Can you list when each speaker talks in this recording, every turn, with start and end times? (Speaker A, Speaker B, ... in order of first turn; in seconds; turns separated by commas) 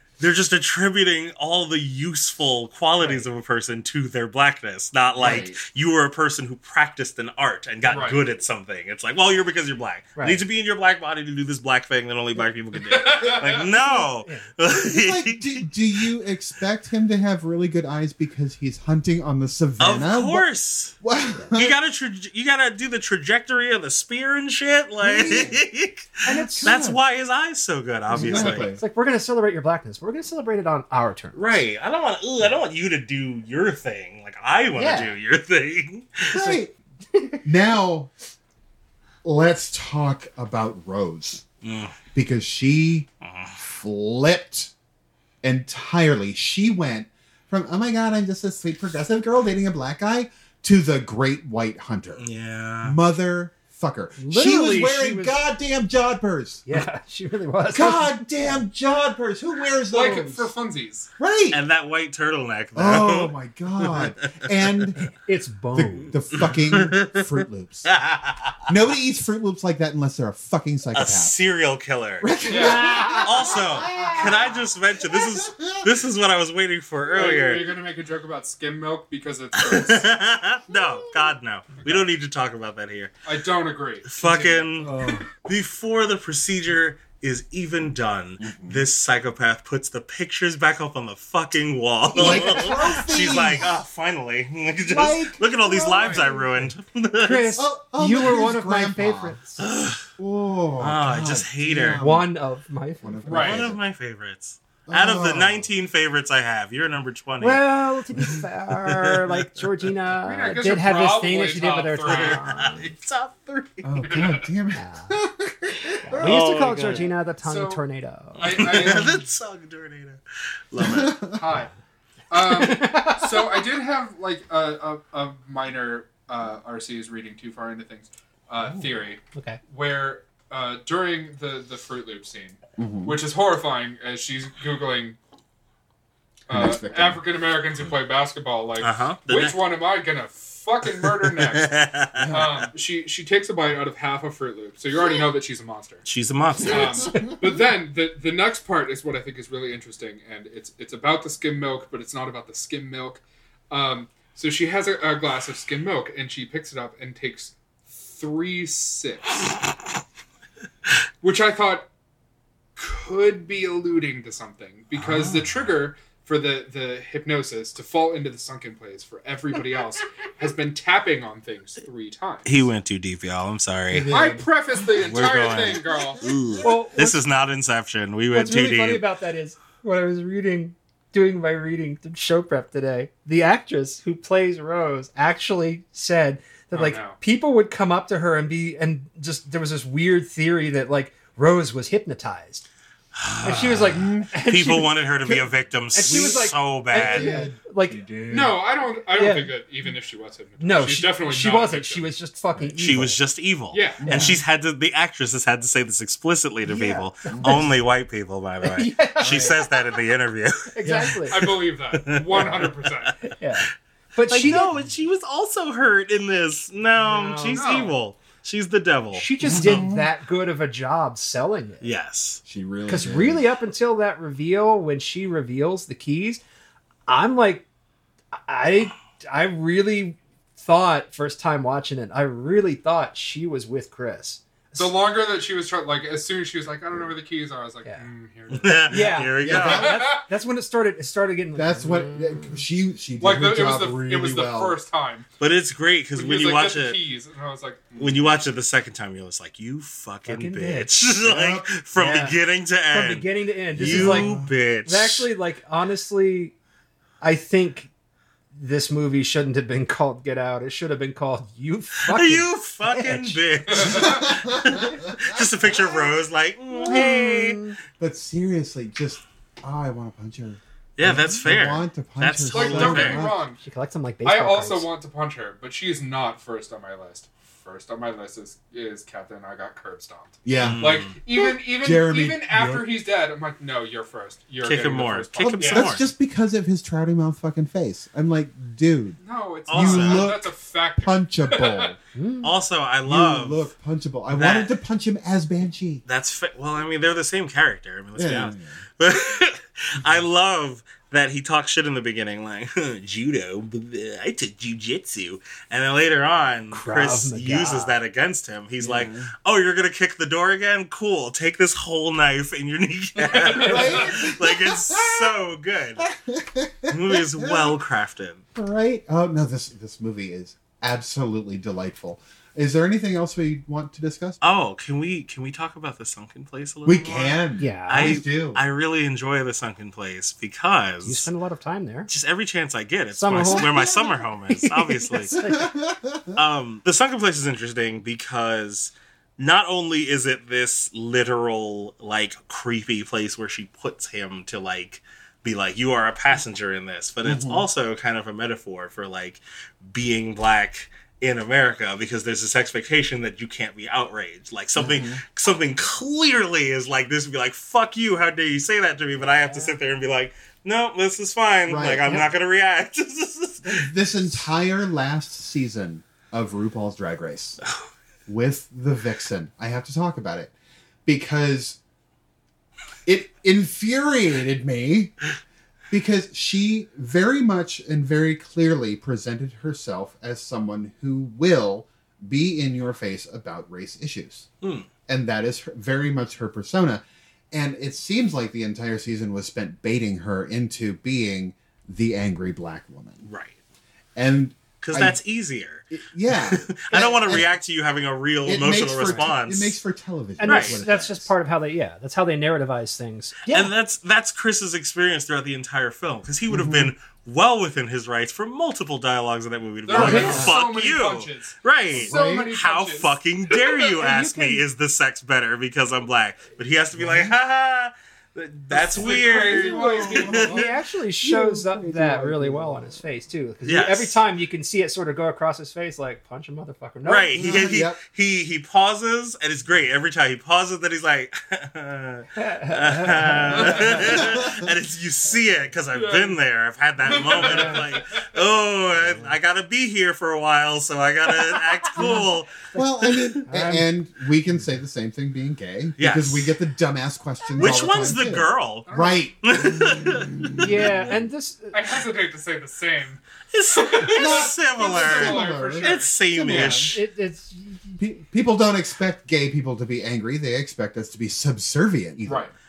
Speaker A: 0.2-15.7, Speaker B: 3.0-3.3, Speaker C: 5.2-5.6, Speaker D: 7.9-8.2, Speaker B: 10.2-10.4, Speaker D: 12.7-13.7, Speaker C: 14.7-20.4, Speaker A: 19.8-20.9, Speaker C: 21.0-21.8, Speaker A: 21.5-28.7, Speaker C: 25.0-25.6, Speaker B: 26.2-26.8, Speaker C: 26.3-27.0, Speaker C: 28.1-28.8, Speaker B: 28.2-31.4, Speaker A: 31.4-36.5, Speaker B: 34.8-35.1, Speaker C: 36.3-36.7, Speaker B: 37.1-37.4, Speaker C: 37.4-38.1, Speaker C: 39.2-41.5, Speaker A: 41.6-42.0, Speaker C: 42.1-44.7, Speaker A: 43.2-43.6, Speaker C: 45.4-52.2, Speaker A: 52.2-53.0, Speaker C: 52.8-56.6, Speaker B: 54.2-55.4, Speaker B: 56.7-58.6, Speaker C: 57.7-60.5, Speaker D: 59.9-61.1, Speaker C: 61.2-61.6, Speaker A: 61.5-64.5, Speaker C: 62.8-65.0, Speaker B: 65.2-66.2, Speaker C: 65.8-67.9, Speaker A: 66.3-67.3, Speaker A: 67.9-68.6, Speaker C: 68.7-71.4, Speaker A: 70.9-72.3, Speaker C: 72.2-75.9, Speaker D: 72.5-72.9, Speaker B: 72.5-74.2, Speaker A: 73.2-77.8, Speaker D: 77.1-80.1, Speaker A: 79.6-83.1, Speaker D: 83.3-84.7, Speaker A: 84.1-97.6, Speaker C: 84.9-85.2, Speaker B: 84.9-85.2, Speaker C: 88.4-88.8, Speaker C: 92.1-93.8, Speaker B: 92.3-92.5, Speaker C: 94.9-96.6, Speaker D: 96.0-96.3, Speaker B: 97.2-99.6, Speaker C: 97.5-99.4, Speaker A: 99.6-100.0, Speaker C: 100.2-102.3, Speaker A: 100.8-102.0, Speaker B: 102.0-103.5, Speaker C: 103.0-103.8, Speaker D: 103.3-103.7, Speaker A: 103.3-109.4, Speaker C: 104.9-105.7, Speaker B: 107.4-112.9, Speaker D: 110.2-112.4, Speaker A: 112.0-113.9, Speaker C: 113.8-116.4, Speaker D: 114.0-114.5, Speaker B: 114.7-115.1, Speaker B: 116.0-118.6, Speaker A: 116.2-117.1, Speaker D: 117.4-117.8, Speaker A: 118.4-121.2, Speaker D: 118.4-119.3, Speaker C: 120.8-121.5, Speaker D: 121.3-121.7, Speaker D: 122.3-135.2, Speaker B: 122.4-123.6, Speaker C: 128.6-128.8, Speaker B: 129.3-129.6, Speaker C: 132.8-133.2, Speaker D: 136.5-141.8, Speaker C: 136.5-137.2, Speaker A: 138.8-139.6, Speaker A: 141.0-142.5, Speaker C: 142.2-142.6, Speaker D: 142.3-146.1, Speaker A: 146.1-147.1, Speaker C: 146.7-147.5, Speaker D: 146.7-159.6, Speaker D: 161.2-161.9, Speaker D: 162.8-172.7, Speaker A: 172.5-174.1, Speaker C: 173.9-174.4, Speaker B: 174.0-174.4, Speaker D: 174.1-176.3, Speaker A: 175.0-179.0, Speaker B: 176.6-177.2, Speaker B: 178.3-192.7, Speaker D: 186.7-187.2, Speaker A: 193.2-197.4, Speaker B: 193.4-198.1, Speaker C: 193.9-194.3, Speaker C: 196.1-196.4, Speaker C: 196.9-198.6, Speaker D: 198.3-202.1, Speaker B: 199.1-199.5, Speaker B: 200.6-203.2, Speaker A: 202.8-212.9, Speaker D: 203.7-204.1, Speaker C: 204.0-204.4, Speaker B: 206.7-207.6, Speaker C: 207.3-207.7, Speaker B: 208.6-209.8, Speaker C: 209.2-209.6, Speaker B: 210.7-211.4, Speaker D: 211.3-213.2, Speaker B: 213.2-214.7, Speaker A: 214.3-219.8, Speaker B: 217.0-217.7, Speaker D: 217.5-217.9, Speaker B: 219.1-221.9, Speaker C: 219.4-220.1, Speaker A: 221.8-222.4, Speaker C: 222.5-223.4, Speaker B: 222.9-226.4, Speaker B: 227.1-227.7, Speaker B: 228.4-234.9, Speaker D: 234.8-240.3, Speaker A: 238.5-240.0, Speaker B: 238.9-242.6, Speaker C: 239.4-240.0, Speaker C: 241.6-244.8, Speaker D: 243.2-245.3, Speaker A: 245.4-247.0, Speaker D: 246.2-248.2, Speaker A: 248.0-255.3, Speaker B: 250.3-250.9, Speaker C: 251.2-251.7, Speaker B: 251.9-252.4, Speaker B: 252.9-256.6, Speaker C: 253.8-254.5, Speaker B: 257.2-257.9, Speaker B: 258.6-263.4, Speaker A: 262.1-267.6, Speaker D: 263.7-264.3, Speaker C: 263.8-265.4, Speaker C: 266.8-267.3, Speaker B: 266.9-267.8, Speaker C: 268.0-273.4, Speaker A: 271.0-273.3, Speaker D: 272.5-273.6, Speaker B: 273.6-274.9, Speaker D: 274.2-286.0, Speaker C: 280.4-282.9, Speaker A: 280.6-281.1, Speaker A: 284.6-286.1, Speaker C: 285.4-292.0, Speaker D: 289.2-291.9, Speaker A: 289.7-290.4, Speaker B: 292.1-292.5, Speaker A: 292.4-293.7, Speaker C: 293.1-296.0, Speaker A: 294.3-294.8, Speaker A: 296.1-316.1, Speaker C: 298.2-298.8, Speaker B: 306.7-308.0, Speaker C: 308.8-309.3, Speaker D: 313.2-314.1, Speaker C: 313.4-315.4, Speaker C: 316.0-317.8, Speaker A: 316.9-318.4, Speaker C: 318.6-324.4, Speaker A: 324.4-331.3, Speaker C: 326.9-328.6, Speaker B: 327.6-328.2, Speaker B: 331.0-332.1, Speaker A: 332.1-335.4, Speaker B: 333.1-335.7, Speaker C: 335.3-336.4, Speaker A: 336.4-363.9, Speaker C: 347.2-347.6, Speaker C: 354.8-355.2, Speaker B: 359.4-359.7, Speaker C: 361.7-362.2, Speaker C: 363.6-367.6, Speaker C: 368.3-370.5, Speaker C: 371.1-371.8, Speaker C: 373.1-375.1, Speaker C: 375.9-384.5, Speaker A: 384.6-384.9, Speaker C: 385.1-393.2, Speaker A: 393.2-393.6, Speaker C: 394.2-395.2, Speaker A: 394.8-399.8, Speaker C: 395.9-397.5, Speaker C: 398.4-401.3, Speaker B: 400.4-403.7, Speaker A: 400.4-400.8, Speaker A: 403.5-420.6, Speaker C: 406.5-406.9, Speaker D: 409.9-413.8, Speaker C: 409.9-410.6, Speaker B: 410.0-410.5, Speaker C: 411.9-412.5, Speaker B: 414.0-414.6, Speaker C: 417.0-417.3, Speaker D: 418.7-420.7, Speaker C: 418.9-420.6, Speaker B: 420.5-427.8, Speaker C: 421.2-423.0, Speaker A: 423.6-424.2, Speaker A: 427.1-443.4, Speaker C: 427.4-428.0, Speaker B: 432.4-434.3, Speaker D: 433.5-434.1, Speaker C: 434.0-434.7, Speaker D: 435.9-436.4, Speaker D: 437.1-438.2, Speaker B: 437.4-437.8, Speaker C: 441.9-451.1, Speaker B: 443.4-443.9, Speaker A: 446.0-446.5, Speaker A: 447.6-448.9, Speaker D: 448.9-449.3, Speaker A: 449.4-450.7, Speaker B: 450.6-451.8, Speaker D: 451.7-456.7, Speaker A: 453.5-457.0, Speaker C: 454.1-457.0, Speaker B: 456.6-458.0, Speaker C: 458.0-462.5, Speaker D: 462.3-462.5